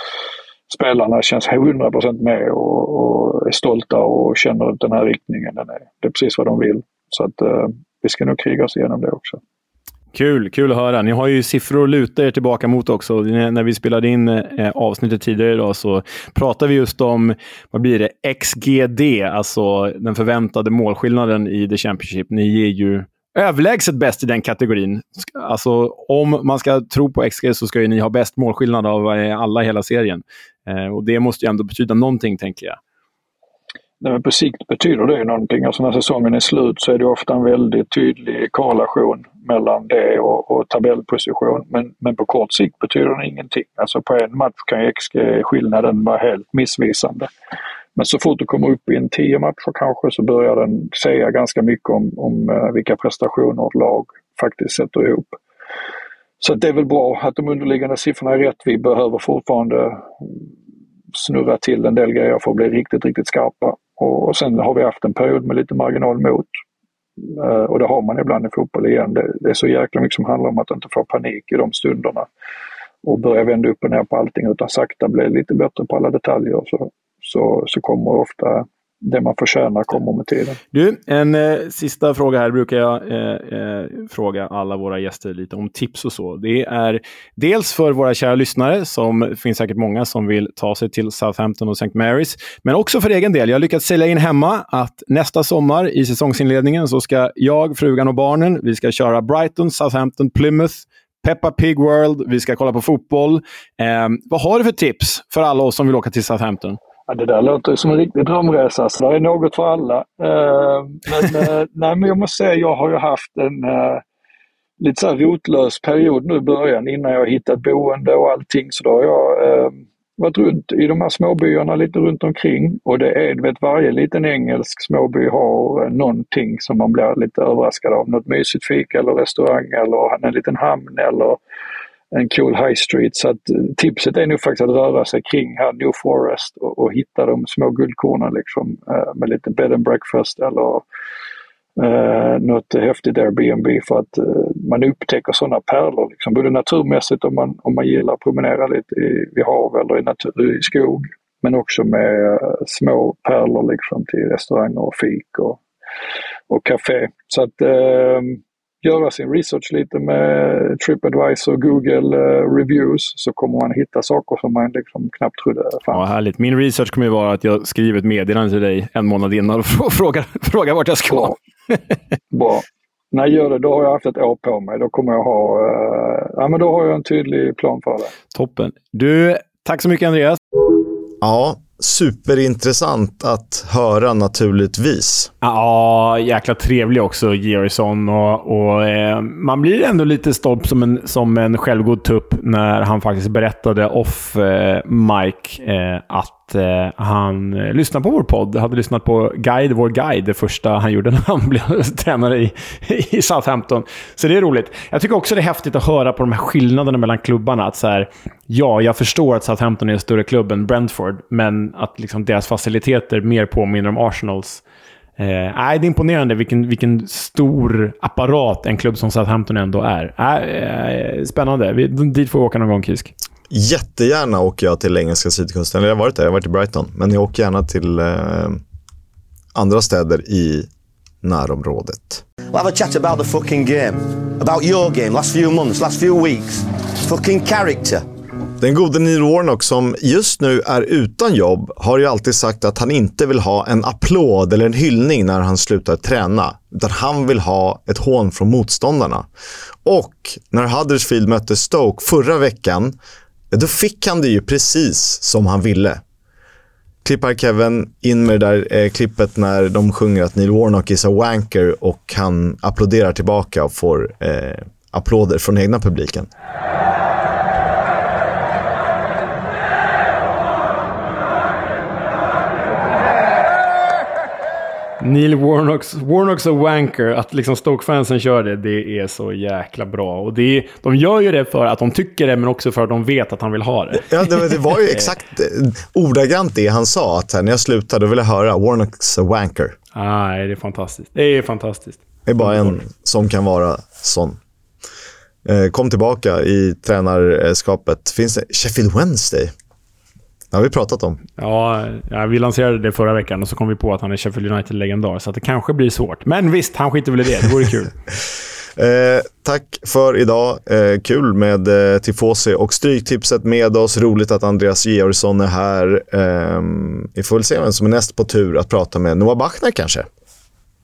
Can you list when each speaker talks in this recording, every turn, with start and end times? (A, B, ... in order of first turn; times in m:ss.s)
0:00.7-0:09.4 A
0:10.1-0:32.8 B
0:34.0-0:47.3 A
0:48.0-0:55.4 A
0:56.4-1:00.4 A
1:01.1-1:06.5 A
1:07.3-1:12.3 A
1:13.0-1:20.6 A
1:20.7-1:46.8 B
1:47.1-1:54.0 A
1:54.8-2:11.4 A
2:12.1-2:20.8 A
2:21.8-2:35.6 A
2:36.5-2:46.0 A
2:45.9-2:51.8 B
2:52.3-2:58.1 A
2:58.3-3:00.4 B
3:01.2-3:05.3 C
3:05.4-3:34.6 B
3:35.2-3:43.1 B
3:43.5-3:48.6 C
3:49.6-3:50.7 C
3:51.2-3:52.2 C
3:52.5-3:58.0 D
3:58.6-4:09.3 C
4:09.8-4:13.0 C
4:13.5-4:16.0 C
4:17.0-4:26.3 C
4:35.0-4:44.1 B
4:44.1-4:49.8 C
4:49.9-4:52.7 B
4:52.3-4:54.4 C
4:55.5-4:59.5 C
5:00.5-5:01.2 C
5:01.4-5:07.9 B
5:08.8-5:20.1 C